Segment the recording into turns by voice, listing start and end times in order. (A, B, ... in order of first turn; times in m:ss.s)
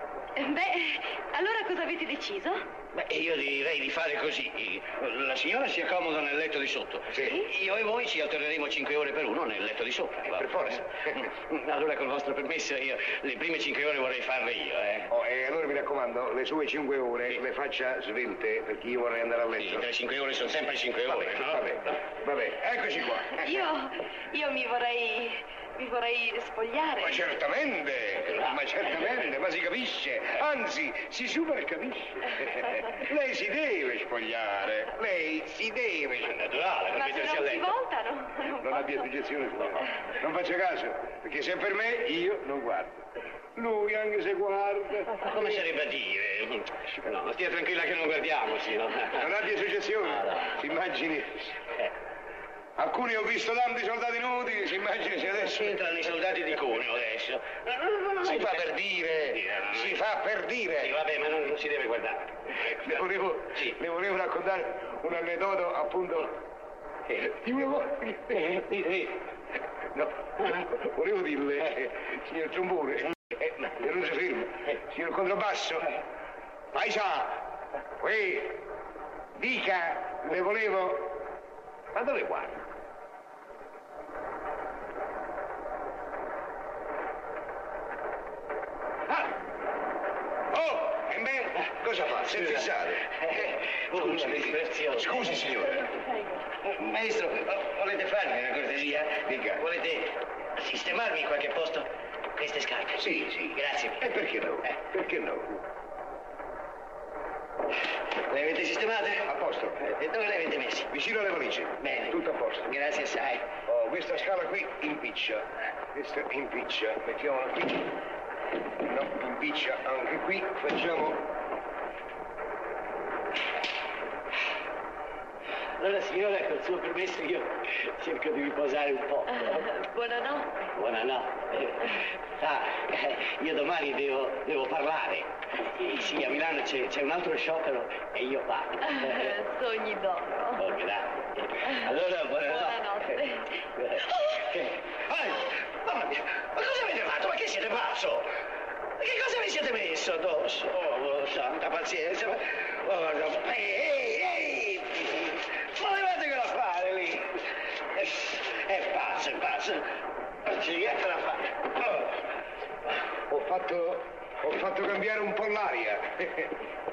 0:00.4-0:02.6 A
0:02.9-0:15.1 B
0:07.1-0:07.4 C
0:10.3-0:10.9 C
0:15.1-0:19.9 C
0:19.6-0:21.9 B
0:21.1-0:23.7 C
0:23.4-0:27.2 A
0:27.0-0:36.4 C
0:28.2-0:28.6 B
0:36.2-0:37.8 B
0:36.9-0:39.1 A
0:38.6-0:43.0 C
0:43.6-0:45.6 C
0:45.2-0:49.3 B
0:49.1-0:51.5 C
0:52.8-0:55.8 C
0:55.3-1:00.0 B
0:58.2-1:01.0 C
1:00.8-1:03.7 B
1:02.8-1:06.4 C
1:07.1-1:08.7 C
1:08.5-1:09.1 B
1:10.0-1:16.0 C
1:16.7-1:17.4 C
1:18.0-1:18.6 C
1:19.4-1:21.2 C
1:21.9-1:22.6 C
1:30.5-1:33.4 C
1:32.2-1:35.4 B
1:33.9-1:35.8 C
1:36.6-1:44.1 B
1:39.2-1:39.6 C
1:43.0-1:45.6 C
1:48.2-1:50.9 B
1:49.2-1:49.8 C
1:50.9-1:52.7 C
1:51.8-1:53.5 B
1:53.6-1:58.0 C
1:58.8-2:01.3 C
2:05.8-2:09.8 B
2:09.4-2:10.5 A
2:10.6-2:19.4 B
2:18.9-2:20.6 A
2:20.4-2:28.3 B
2:22.5-2:23.5 A
2:29.0-2:39.9 B
2:40.4-2:42.1 B
2:43.3-2:46.5 C